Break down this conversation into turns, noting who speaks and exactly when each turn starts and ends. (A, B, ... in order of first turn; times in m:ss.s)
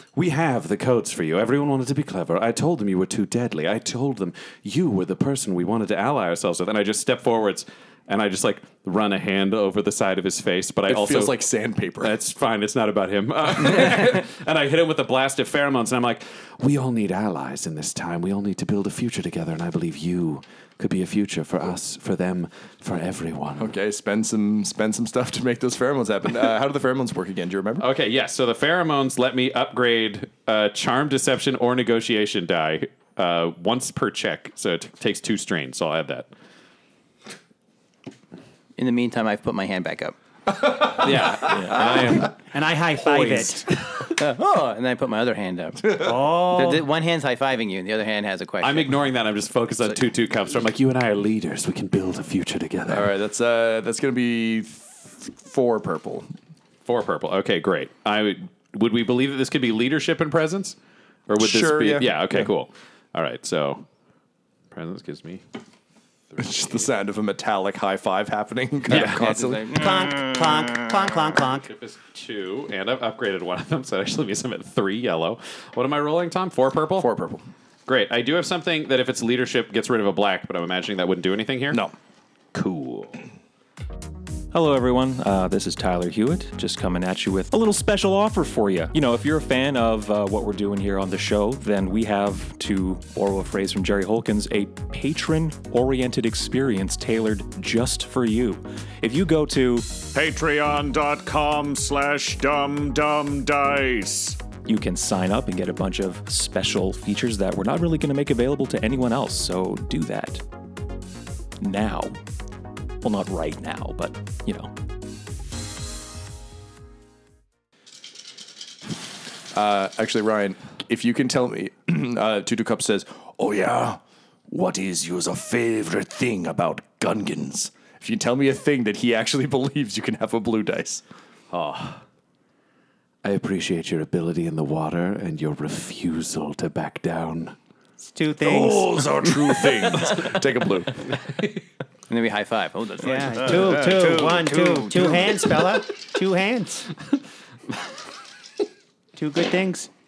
0:00.2-0:11.4 A
0:10.9-0:12.1 B
0:12.0-0:23.7 A
0:23.6-0:27.9 B
0:27.8-0:36.3 A
0:38.8-0:40.2 C
0:41.0-0:42.4 D
0:41.0-0:41.9 A
0:42.3-0:43.7 E
0:43.0-0:43.5 D
0:44.2-0:49.0 C
0:46.0-0:46.8 E
0:48.6-0:53.1 A
0:52.9-0:56.3 B
0:56.9-1:00.8 A
1:01.3-1:03.8 A
1:01.4-1:02.5 B
1:04.7-1:05.4 A
1:06.3-1:06.9 A
1:06.4-1:09.8 B
1:08.9-1:09.2 A
1:08.9-1:10.4 C
1:09.7-1:11.7 E
1:11.7-1:17.1 A
1:17.0-1:17.5 B
1:17.9-1:21.8 A
1:22.5-1:23.2 D
1:24.5-1:40.0 D
1:40.1-1:44.4 F
1:44.6-1:50.4 D
1:51.6-1:52.2 D
1:53.0-1:54.7 D
1:59.5-2:11.0 B
2:11.5-2:12.0 A
2:13.2-2:17.6 A
2:18.0-2:19.2 E
2:18.4-2:21.1 B
2:22.1-2:25.6 C
2:23.0-2:26.9 E
2:29.2-2:29.9 E